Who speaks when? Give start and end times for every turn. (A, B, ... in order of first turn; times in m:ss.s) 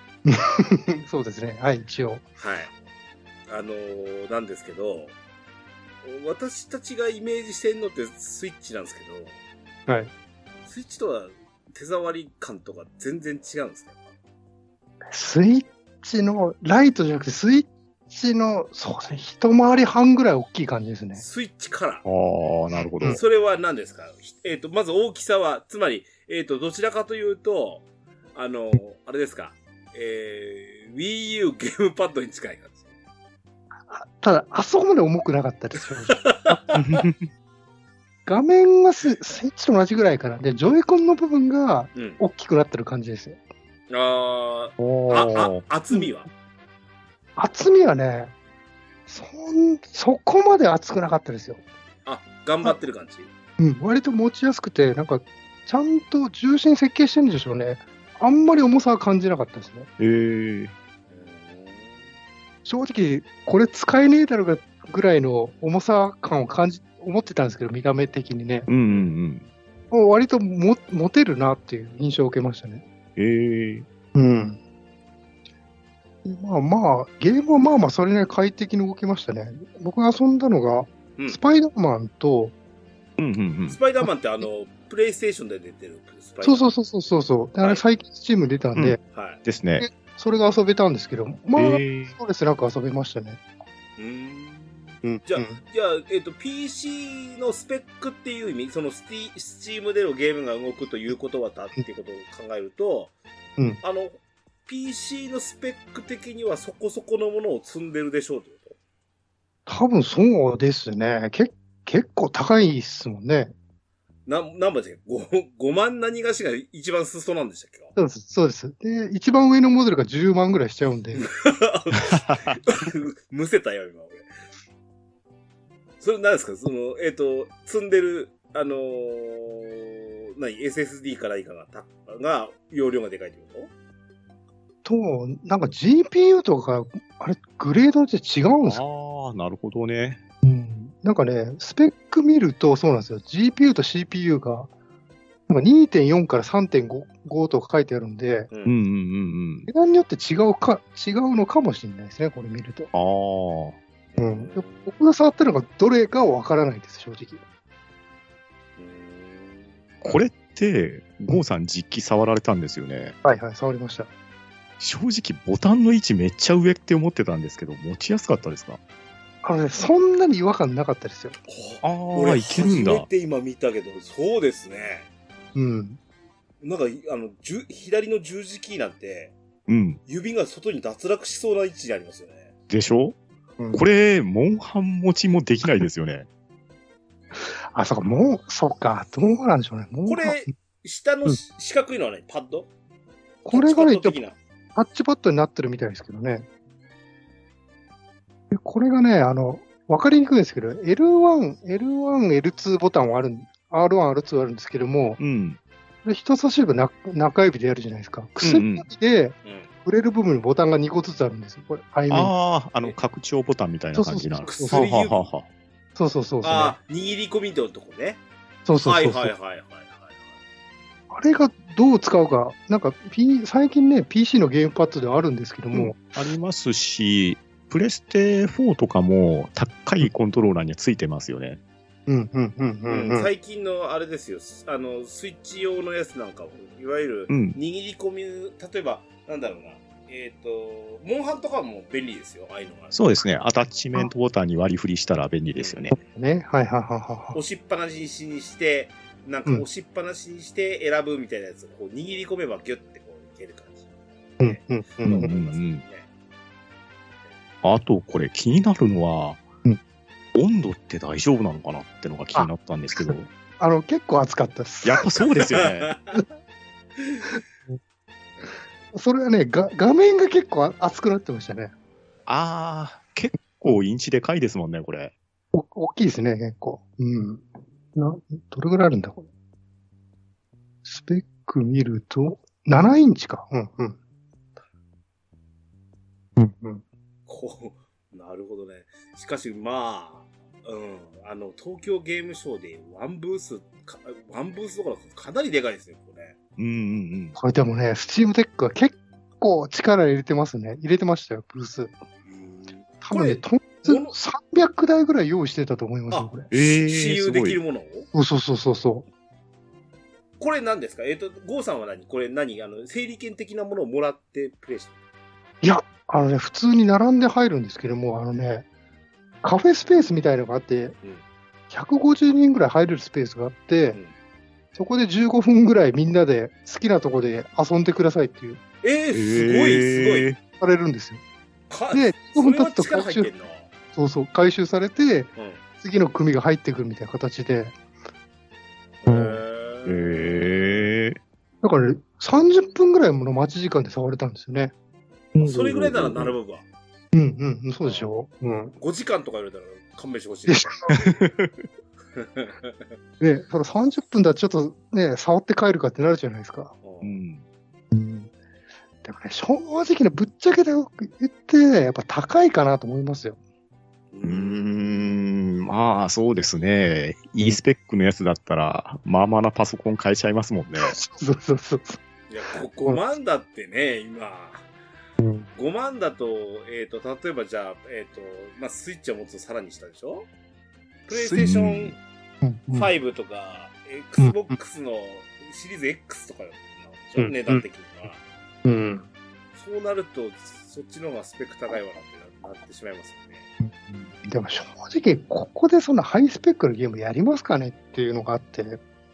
0:00.2-0:02.2 A
0:02.4-0:02.7 B
0:03.5-0:05.1 B
0:06.0-0:09.4 B
0:10.6-0:14.1 B
0:15.1-0:21.2 A
0:21.2-0:22.0 B
0:22.0-0:23.2 C
0:23.0-0:32.9 B
0:33.9-0:36.6 A
0:36.1-0:37.0 B
0:36.7-0:37.3 C
0:38.2-0:43.4 A
0:41.9-0:42.2 B
0:43.9-0:46.3 B
0:44.8-0:45.4 A
0:45.0-0:45.6 C
0:47.4-0:48.3 A
0:49.1-0:51.6 A
0:52.0-0:53.3 B
0:53.6-0:59.9 A
1:00.0-1:00.7 C
1:01.1-1:02.1 B
1:02.6-1:08.7 A
1:08.7-1:09.5 C
1:09.9-1:12.8 A
1:13.2-1:13.8 C
1:14.1-1:14.6 A
1:16.2-1:22.5 A
1:23.2-1:23.8 C
1:23.7-1:26.7 B
1:26.4-1:29.0 A
1:28.7-1:29.9 C
1:29.1-1:29.4 B
1:29.8-1:33.4 A
1:31.6-1:32.2 C
1:34.0-1:43.1 B
1:35.0-1:35.6 A
1:43.8-1:48.8 B
1:49.7-1:53.5 A
1:54.3-1:57.9 B
1:58.0-2:01.2 A
2:01.1-2:04.2 B
2:06.0-2:13.7 B
2:14.8-2:18.8 A
2:18.6-2:20.2 C
2:20.4-2:24.7 A
2:25.5-2:28.5 A
2:28.6-2:29.7 C
2:29.7-2:32.9 A
2:32.9-2:33.8 C
2:34.1-2:35.0 B
2:34.2-2:37.4 A
2:38.8-2:39.8 B
2:40.0-2:43.2 C
2:43.2-2:44.1 A
2:44.8-2:48.8 C
2:49.4-2:51.4 A
2:51.4-2:55.1 B
2:51.8-2:53.1 C
2:55.5-2:56.0 A
2:56.6-2:59.3 B
2:59.7-3:00.0 C
3:00.0-3:02.5 B
3:02.7-3:03.2 C
3:03.6-3:03.8 A
3:03.7-3:06.3 C
3:07.3-3:10.5 A
3:10.1-3:12.7 B
3:13.4-3:14.2 A
3:13.5-3:14.4 B
3:14.7-3:16.5 A
3:18.5-3:25.2 A
3:25.2-3:25.6 C
3:26.0-3:32.3 A
3:28.4-3:28.9 C
3:29.4-3:29.7 B
3:32.1-3:35.5 C
3:33.9-3:34.9 A
3:34.4-3:35.3 B
3:36.0-3:36.8 A
3:36.4-3:38.2 B
3:38.6-3:39.3 A
3:38.7-3:40.3 B
3:41.1-3:46.0 A
3:45.7-3:51.6 C
3:52.1-3:53.3 A
3:52.9-4:03.0 B
3:57.3-3:57.6 C
4:02.9-4:06.0 C
4:05.5-4:05.9 B
4:06.1-4:07.4 A
4:07.3-4:14.6 B
4:14.4-4:15.3 A
4:15.0-4:15.8 C
4:15.2-4:16.1 B
4:17.6-4:19.4 C
4:20.3-4:23.3 C
4:22.3-4:25.1 A
4:24.8-4:25.9 C
4:25.5-4:26.2 B
4:27.0-4:27.2 B
4:28.9-4:31.7 A
4:32.3-4:35.1 C
4:35.5-4:39.2 A
4:40.8-4:44.0 A
4:46.4-4:46.8 A
4:47.3-4:56.4 B
4:56.6-4:57.4 C
4:57.4-5:01.9 A
5:02.2-5:04.2 B
5:03.0-5:06.5 A
5:06.1-5:08.1 B
5:06.5-5:07.6 C
5:08.1-5:09.0 A
5:10.4-5:14.9 B
5:15.6-5:18.6 A
5:19.4-5:21.0 A
5:21.7-5:24.0 A
5:24.7-5:28.6 A
5:28.8-5:30.3 B
5:29.1-5:30.4 C
5:30.6-5:31.2 A
5:31.7-5:33.7 B
5:31.9-5:33.3 A
5:33.9-5:37.7 A
5:35.4-5:35.6 B
5:39.0-5:40.9 B
5:39.1-5:39.4 A
5:39.9-5:41.2 C
5:41.6-5:44.7 A
5:45.4-5:46.3 C
5:45.4-5:46.6 B
5:45.4-5:46.2 A
5:47.1-5:48.7 A
5:47.8-5:48.1 B
5:48.8-5:51.2 B
5:50.5-5:50.7 A
5:51.2-5:51.5 C
5:52.1-5:52.9 B
5:53.2-5:56.7 A
5:56.8-5:57.2 B
5:57.0-5:57.4 C
5:57.9-5:58.3 A
5:59.0-6:03.4 A
6:04.1-6:04.6 B
6:04.2-6:11.0 C
6:10.8-6:12.0 A
6:12.3-6:14.7 B
6:15.2-6:15.5 A
6:15.5-6:20.3 B
6:21.1-6:22.0 B
6:21.3-6:22.0 C
6:22.4-6:22.9 A
6:22.7-6:28.2 B
6:24.2-6:24.5 A
6:27.2-6:27.6 A
6:28.6-6:29.1 A
6:29.5-6:33.5 B
6:33.6-6:38.8 A